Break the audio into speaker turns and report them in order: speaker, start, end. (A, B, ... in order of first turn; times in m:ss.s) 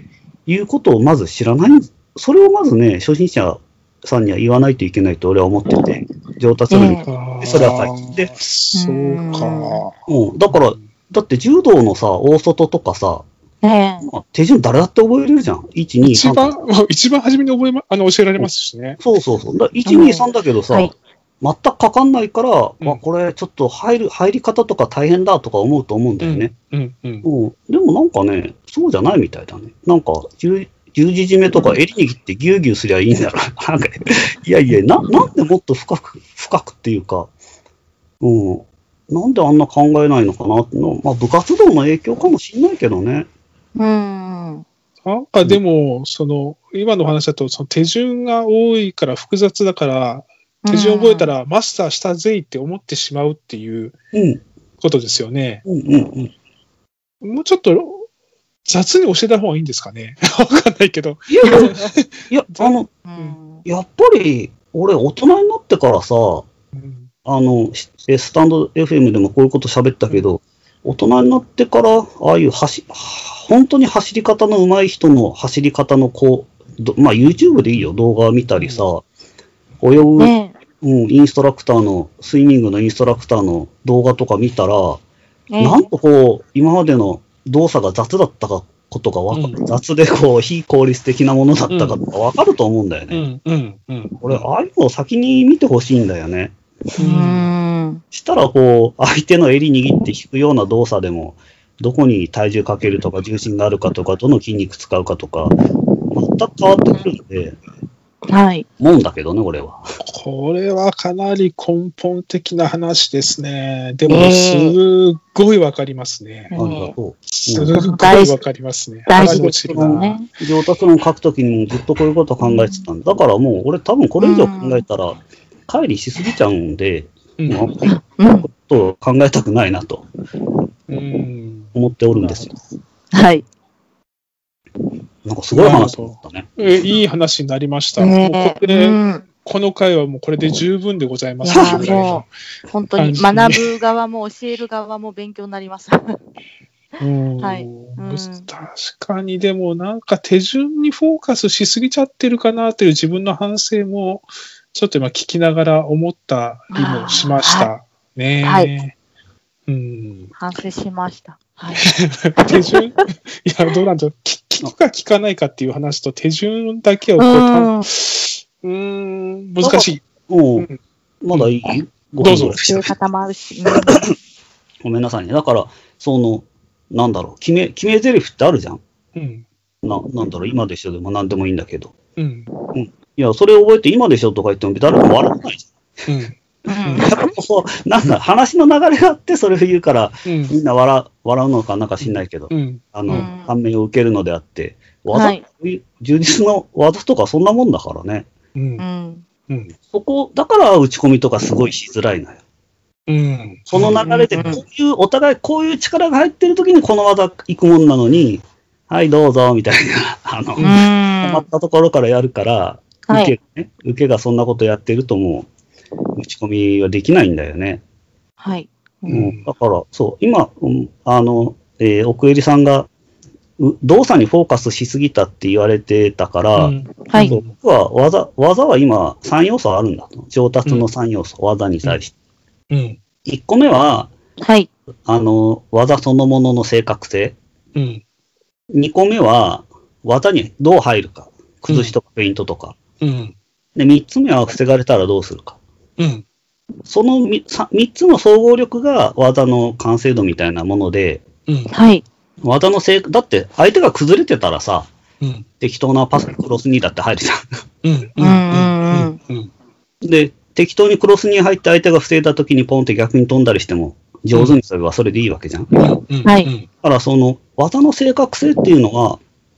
0:00.5-0:08.3 A
0:06.7-0:07.1 B
0:07.0-0:09.9 C
0:08.7-0:09.8 B
0:10.1-0:13.2 A
0:10.5-0:10.8 C
0:13.6-0:14.1 B
0:14.0-0:16.5 A
0:16.0-0:19.0 C
0:19.0-0:26.5 A
0:19.8-0:20.9 B
0:26.2-0:27.2 C
0:27.2-0:37.3 A
0:31.5-0:31.8 B
0:38.2-0:43.3 A
0:43.8-0:44.6 B
0:45.0-0:53.9 C
0:50.6-0:51.3 B
0:54.1-0:54.4 A
0:54.8-0:55.6 C
0:55.6-0:56.3 A
0:57.2-0:58.1 C
0:58.6-1:03.4 C
1:01.3-1:01.7 A
1:02.3-1:02.9 A
1:03.0-1:03.6 B
1:03.6-1:06.5 A
1:06.7-1:07.1 C
1:07.2-1:19.0 A
1:18.6-1:18.8 C
1:19.8-1:25.0 A
1:20.2-1:20.5 B
1:25.5-1:25.9 B
1:25.6-1:33.2 A
1:29.3-1:29.6 C
1:31.7-1:32.0 C
1:33.1-1:34.4 C
1:34.2-1:36.5 A
1:37.0-1:37.5 C
1:37.0-1:38.0 B
1:38.1-1:45.6 A
1:46.1-1:47.6 A
1:48.3-1:48.6 B
1:48.8-1:49.8 A
1:50.0-1:56.5 C
1:54.1-1:54.8 B
1:56.5-1:56.9 B
1:56.5-1:57.8 A
1:57.3-2:00.2 C
1:57.7-1:58.4 B
1:59.1-2:00.3 B
1:59.2-2:07.9 A
2:02.4-2:02.8 B
2:04.2-2:04.8 B
2:07.4-2:07.8 C
2:07.8-2:08.5 B
2:08.5-2:10.0 A
2:10.9-2:12.5 C
2:11.7-2:12.5 A
2:13.1-2:13.4 B
2:15.2-2:16.6 A
2:15.5-2:22.3 C
2:18.0-2:19.2 B
2:21.4-2:26.2 B
2:21.5-2:22.0 A
2:23.0-2:23.6 C
2:27.0-2:38.9 C
2:27.4-2:28.5 B
2:36.7-2:37.7 B
2:38.4-2:38.7 B
2:39.7-2:40.3 C
2:40.4-2:41.8 B
2:41.8-2:50.0 C
2:42.4-2:42.8 B
2:47.2-2:47.9 B
2:49.6-2:50.7 A
2:51.2-2:52.9 A
2:52.2-2:52.9 C
2:52.6-2:54.0 B
2:54.8-2:58.8 A
2:59.1-2:59.4 C
2:59.8-3:01.9 A
3:02.2-3:02.5 C
3:02.7-3:05.7 A
3:06.1-3:07.1 C
3:06.7-3:07.3 B
3:07.0-3:18.3 A
3:10.2-3:10.5 C
3:12.0-3:13.3 C
3:13.1-3:13.5 B
3:15.1-3:15.4 B
3:18.5-3:18.8 C
3:18.8-3:19.2 B
3:19.5-3:19.7 C
3:19.9-3:22.4 A
3:23.1-3:24.0 C
3:23.7-3:35.5 A
3:23.8-3:24.6 B
3:30.6-3:30.8 C
3:30.6-3:31.4 B
3:33.1-3:33.3 B
3:36.2-3:37.8 A
3:38.4-3:39.1 B
3:39.1-3:39.5 C
3:39.1-3:42.9 A
3:43.6-3:52.1 A
3:46.6-3:47.5 C
3:52.7-3:53.0 C
3:53.2-3:54.1 A
3:54.4-3:54.7 B
3:55.1-3:57.4 A
3:57.7-3:58.0 C
3:58.7-4:02.8 A
4:01.6-4:02.0 C
4:03.0-4:03.3 C
4:03.7-4:05.6 A
4:06.0-4:06.2 C
4:06.9-4:11.2 A
4:11.5-4:11.7 C
4:11.7-4:12.0 B
4:12.4-4:14.9 A
4:15.2-4:15.4 C
4:15.6-4:17.4 A
4:17.8-4:19.5 C
4:18.2-4:19.2 B
4:20.0-4:25.7 A
4:25.8-4:26.7 C
4:26.2-4:26.5 B
4:26.8-4:29.2 A